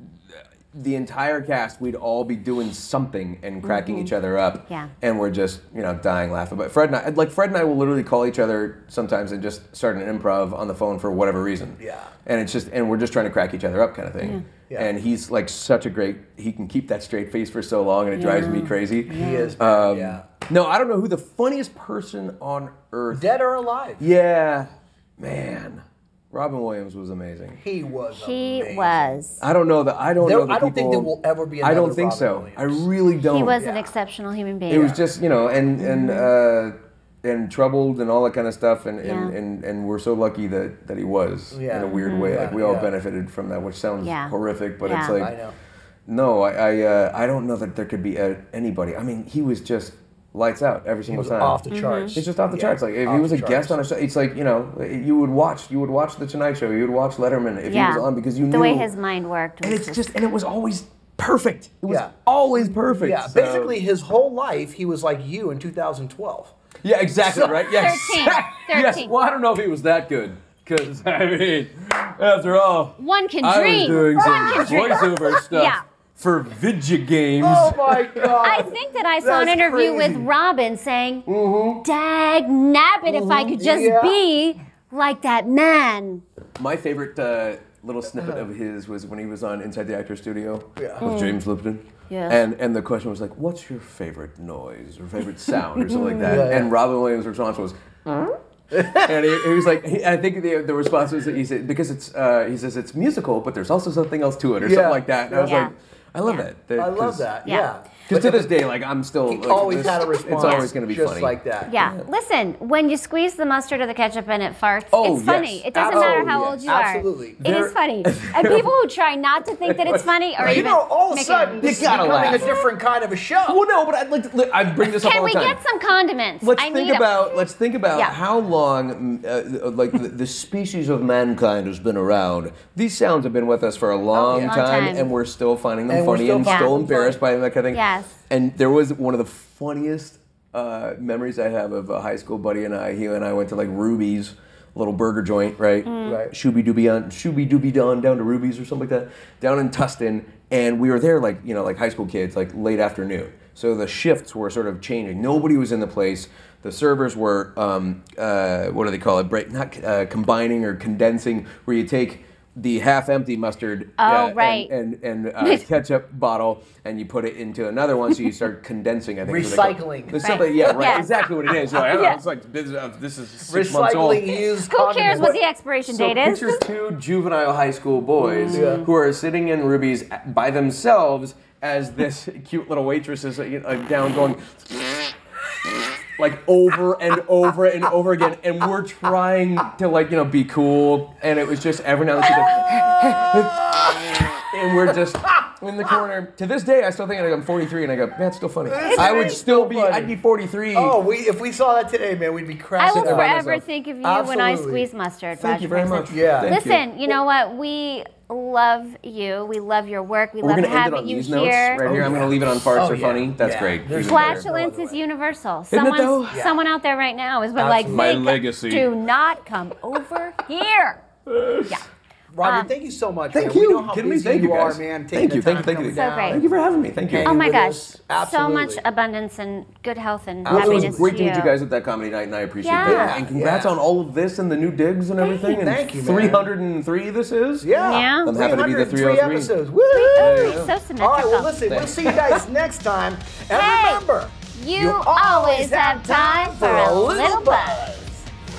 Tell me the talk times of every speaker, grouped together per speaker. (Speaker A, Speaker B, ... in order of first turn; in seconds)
Speaker A: 0.3-23.3, 24.0-27.6, 29.4-33.6, 34.7-45.3, 46.1-51.6, 52.1-58.9, 59.6-63.8, 66.8-78.4, 81.2-81.8, 86.6-97.8, 98.7-107.3, 108.1-112.0, 114.9-116.6, 117.4-118.7, 119.6-120.7, 121.6-122.6, 123.5-125.6, 126.4-174.3, 175.9-185.1, 186.2-201.0, 202.9-203.6, 205.4-206.8, 210.4-214.4, 215.7-216.4, 217.9-218.9, 221.2-221.8, 223.3-227.4, 230.4-239.6, 240.2-240.7, 241.7-242.4
Speaker B: 3.6-4.1, 18.2-19.6, 28.1-29.4, 33.3-35.0, 35.8-36.3, 39.0-39.3, 42.0-42.4, 44.0-45.1, 51.7-52.1, 57.7-60.1, 67.4-69.1, 73.0-75.8, 78.4-81.3, 81.8-86.2, 91.0-91.4, 92.1-92.4, 95.9-96.4, 105.4-105.7, 110.3-110.7, 111.7-122.6, 124.9-127.4, 134.3-135.1, 136.4-136.7, 137.7-138.1, 145.8-146.2, 164.0-164.7, 170.2-171.1, 171.8-172.2, 174.5-176.6, 178.2-178.9, 198.8-199.3, 202.8-211.8, 214.0-221.0, 222.4-222.7, 225.9-226.4, 227.2-231.5, 232.6-233.2, 237.7-238.3, 239.9-241.5, 243.5-244.0, 244.5-247.9
Speaker C: 11.8-12.1, 19.1-20.2, 23.1-24.0, 27.6-29.2, 30.2-32.9, 33.6-33.9, 41.5-42.9, 45.1-45.5, 51.1-53.8, 61.9-62.1, 62.6-66.5, 67.2-67.6, 74.1-75.2, 77.4-80.3, 83.0-84.2, 90.8-91.0, 96.2-96.7, 98.7-99.3, 104.6-105.7, 106.8-108.5, 109.2-111.7, 115.7-117.4, 120.4-123.6, 134.1-134.6, 135.9-137.2, 146.0-146.3, 169.2-171.1, 173.5-175.4, 178.5-178.8, 194.8-195.5, 198.7-200.1, 200.7-203.4, 204.0-204.9, 206.1-206.6, 211.8-215.0, 216.3-216.6, 217.6-218.3, 222.3-228.8, 230.4-231.2, 232.8-233.8, 235.4-236.5, 237.6-248.2